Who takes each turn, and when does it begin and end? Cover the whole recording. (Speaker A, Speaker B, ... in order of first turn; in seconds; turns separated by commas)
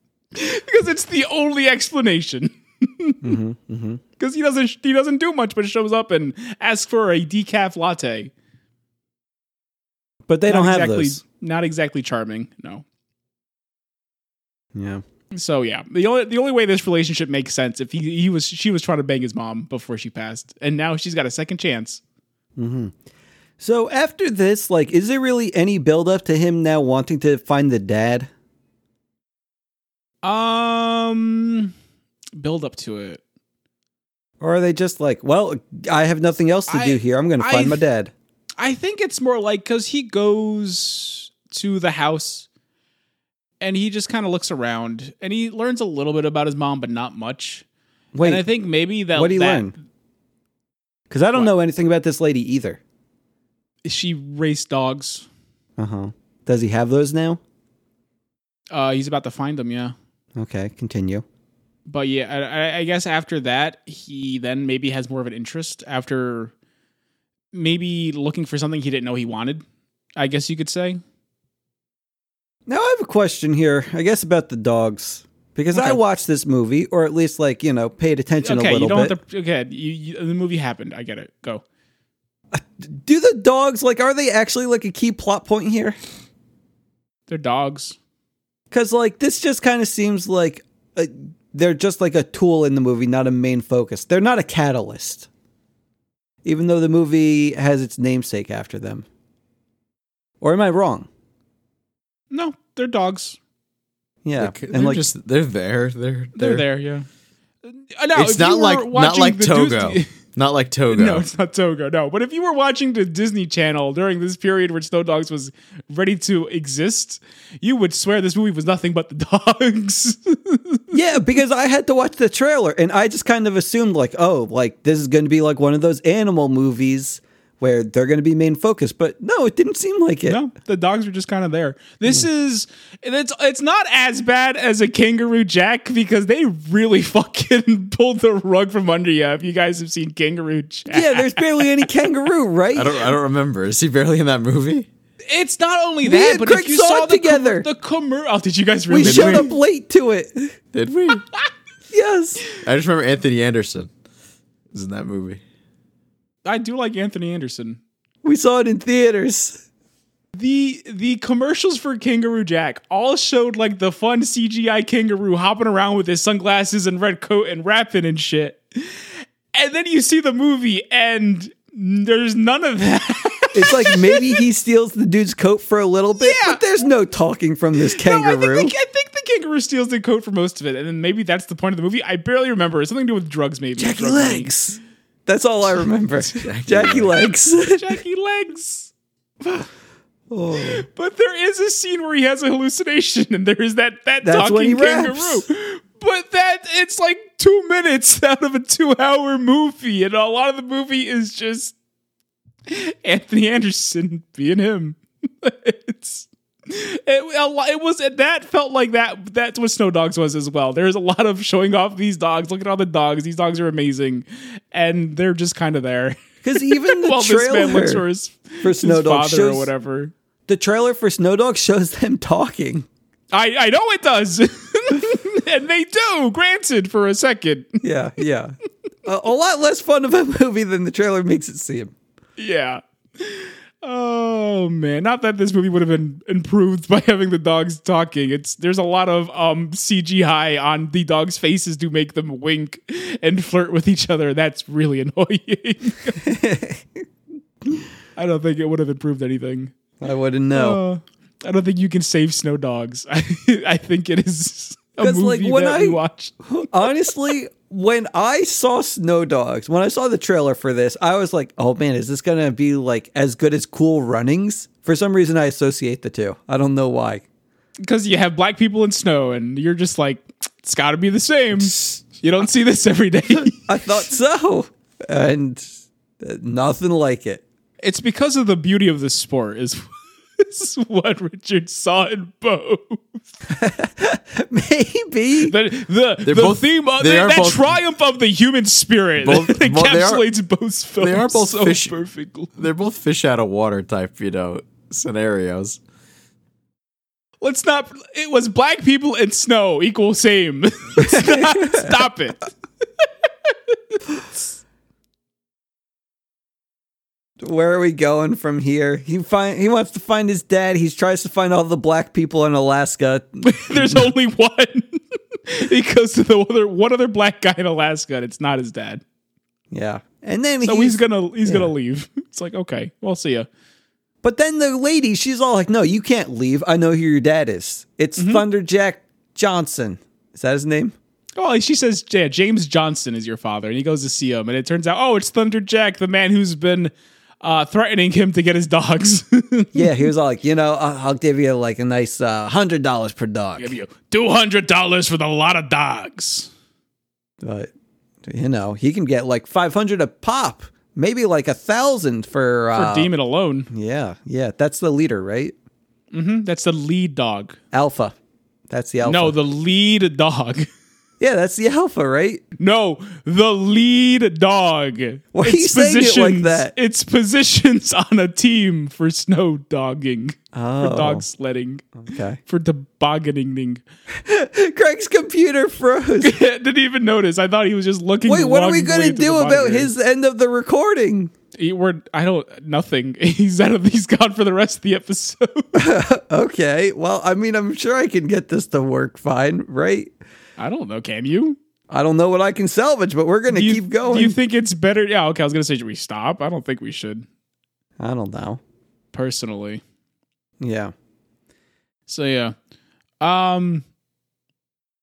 Speaker A: 0.3-3.3, Speaker B: 3.2-4.0, Speaker A: 4.2-8.3, Speaker B: 10.3-11.2, Speaker A: 10.5-12.8, Speaker B: 14.7-15.0, Speaker A: 15.3-22.0, Speaker B: 22.6-22.9, Speaker B: 23.6-28.3, Speaker A: 30.2-31.7, Speaker A: 32.4-33.2, Speaker B: 34.4-38.1, Speaker A: 36.7-37.8, Speaker A: 38.6-42.5, Speaker A: 43.6-47.6, Speaker B: 48.1-48.4, Speaker A: 48.2-49.7, Speaker B: 49.1-49.7, Speaker B: 51.1-52.8, Speaker A: 53.8-55.2, Speaker B: 55.8-57.4, Speaker A: 58.7-59.9, Speaker B: 60.4-61.2, Speaker A: 61.9-66.5, Speaker A: 67.5-69.6, Speaker A: 70.2-71.0, Speaker B: 72.7-79.1, Speaker A: 75.7-76.0, Speaker A: 78.4-81.6, Speaker B: 82.5-86.0, Speaker A: 87.3-88.0, Speaker B: 88.7-95.3, Speaker B: 96.4-99.0, Speaker B: 100.4-101.1, Speaker A: 102.3-103.4, Speaker B: 104.2-105.0, Speaker C: 104.4-106.6, Speaker A: 106.3-107.0, Speaker A: 107.7-110.1, Speaker C: 108.1-111.2, Speaker A: 110.9-120.9, Speaker B: 120.9-130.4, Speaker A: 130.3-141.8, Speaker B: 140.9-143.0, Speaker C: 142.7-144.9, Speaker A: 145.3-149.5, Speaker B: 146.0-147.7, Speaker B: 148.9-150.5, Speaker C: 149.0-149.5, Speaker C: 150.7-151.2, Speaker B: 151.9-152.4, Speaker C: 152.6-153.9, Speaker C: 154.7-155.4, Speaker A: 156.4-157.8, Speaker B: 158.2-159.6, Speaker A: 160.3-174.4, Speaker B: 173.5-178.7, Speaker A: 176.2-176.6, Speaker A: 177.8-184.5, Speaker B: 183.8-188.0, Speaker C: 186.4-187.1, Speaker A: 187.6-188.9, Speaker B: 190.3-190.8, Speaker A: 190.6-201.7, Speaker B: 194.2-195.4, Speaker A: 202.7-220.1, Speaker B: 216.4-218.0, Speaker B: 218.6-219.7, Speaker B: 220.5-222.8, Speaker A: 223.3-227.8, Speaker B: 227.8-231.9, Speaker A: 232.4-246.2, Speaker B: 246.2-247.0, Speaker A: 248.2-249.7, Speaker B: 250.0-250.8, Speaker A: 250.5-257.1, Speaker B: 255.0-267.2, Speaker A: 267.8-273.6, Speaker B: 273.7-275.7, Speaker B: 276.2-277.4, Speaker A: 277.8-279.9, Speaker A: 280.4-283.0, Speaker B: 283.5-285.5, Speaker A: 285.4-292.5, Speaker C: 286.2-287.8, Speaker C: 289.2-290.3, Speaker C: 291.0-291.9, Speaker C: 292.5-295.8, Speaker A: 297.4-302.4, Speaker B: 301.0-302.0, Speaker A: 303.0-303.5, Speaker B: 307.4-314.1, Speaker A: 313.4-319.0, Speaker B: 319.7-321.7, Speaker A: 320.6-323.5, Speaker B: 324.2-330.9, Speaker A: 328.2-328.4, Speaker A: 331.4-340.1, Speaker B: 339.7-343.7, Speaker A: 343.6-346.5, Speaker B: 347.4-347.7, Speaker B: 348.2-353.1, Speaker A: 352.7-353.7, Speaker B: 353.7-355.5, Speaker A: 356.1-357.6, Speaker B: 357.7-358.1, Speaker B: 358.7-359.4, Speaker A: 359.0-360.7, Speaker B: 361.2-362.4, Speaker A: 362.6-371.8, Speaker B: 365.3-366.7, Speaker B: 370.5-371.2, Speaker B: 372.0-372.4, Speaker A: 372.4-373.8, Speaker B: 374.1-376.4, Speaker A: 376.2-379.9, Speaker B: 378.2-381.3, Speaker A: 381.6-385.8, Speaker B: 385.7-390.1, Speaker A: 390.6-391.6, Speaker B: 391.9-394.4, Speaker A: 393.5-397.2, Speaker B: 398.0-398.6, Speaker A: 399.1-399.8, Speaker B: 400.6-400.9, Speaker A: 402.1-402.5, Speaker A: 403.2-403.8